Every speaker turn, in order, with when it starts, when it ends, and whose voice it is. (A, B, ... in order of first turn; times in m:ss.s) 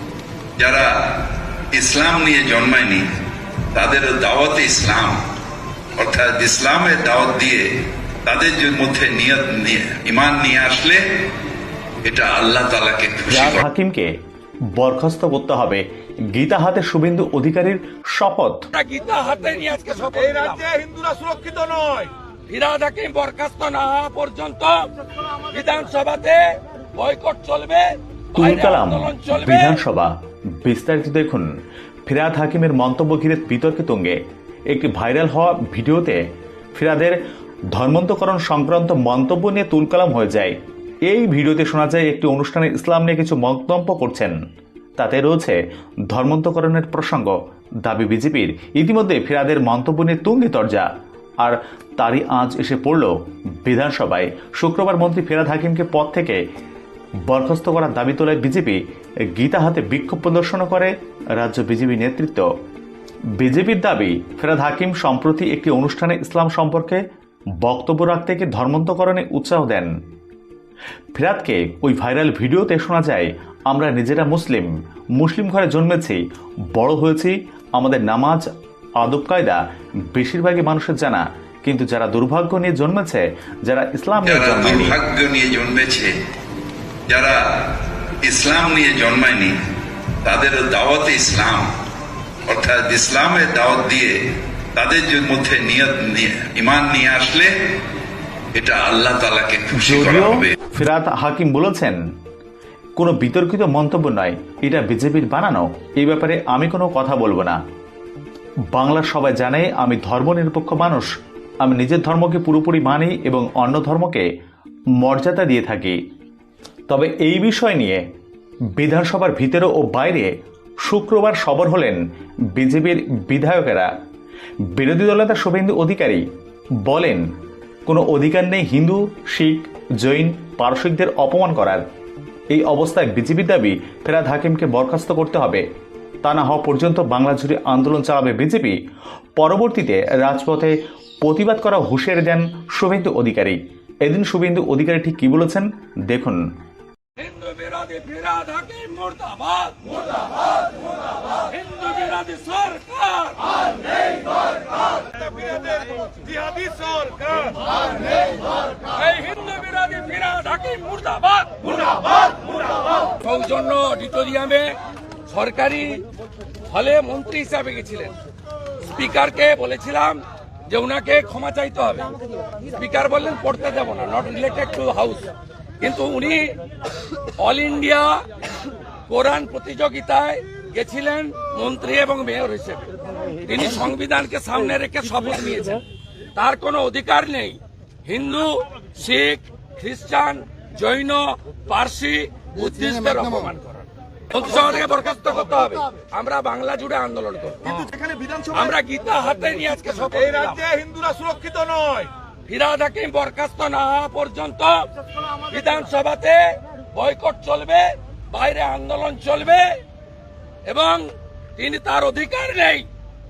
0:00.6-0:00.9 A
0:01.7-0:03.0 A
0:03.7-0:05.2 A
0:06.0-0:07.6 A
0:08.2-0:11.0 A
0:12.0-0:13.6 A
0:13.3-0:14.1 B
0:14.8-0:15.8 B
0:16.3-0:18.6 B
0:18.7-0:20.8 C
0:20.8-0:22.0 D
0:22.5-0:24.8 C
0:25.5-0:29.8 C
0:28.3-0:30.1 B
0:30.6-0:31.4 B
0:32.1-0:34.2 B
0:34.7-0:36.2 B
0:36.7-0:37.2 B
0:37.7-0:40.5 B
0:41.1-0:44.3 B
0:45.0-0:45.6 B
0:46.1-0:47.3 B
0:47.8-0:50.8 B
0:51.4-0:53.1 B
0:53.6-0:56.4 B
0:57.3-0:58.8 B
0:59.3-1:02.5 B
1:03.4-1:07.0 B
1:07.6-1:09.9 B
1:11.1-1:16.2 B
1:16.7-1:18.4 B
1:19.0-1:19.6 B
1:20.1-1:25.0 B
1:24.2-1:26.1 A
1:27.1-1:27.6 A
1:28.2-1:29.5 A
1:30.2-1:31.7 A
1:32.5-1:34.1 A
1:34.8-1:37.5 A
1:38.5-1:40.6 A
1:39.8-1:42.0 B
1:43.0-1:47.6 B
1:48.7-1:51.1 B
1:51.6-1:54.2 B
1:55.0-1:56.0 B
1:56.9-1:58.0 B
1:58.8-2:00.3 B
2:00.8-2:02.0 B
2:02.5-2:03.9 B
2:04.7-2:06.2 B
2:06.8-2:07.2 B
2:07.8-2:11.8 B
2:12.5-2:15.6 B
2:16.2-2:18.7 B
2:19.4-2:26.4 B
2:27.2-2:33.6 C
2:35.0-2:37.5 C
2:38.1-2:42.3 C
2:43.0-2:44.8 C
2:45.3-2:46.0 C
2:46.7-2:48.1 C
2:48.8-2:52.1 C
2:52.7-2:56.6 C
2:57.4-2:58.2 C
2:59.1-3:02.9 C
3:03.4-3:05.8 C
3:06.3-3:20.8 C
3:20.7-3:22.1 D
3:22.5-3:24.9 C
3:25.4-3:29.8 C
3:30.6-3:32.8 C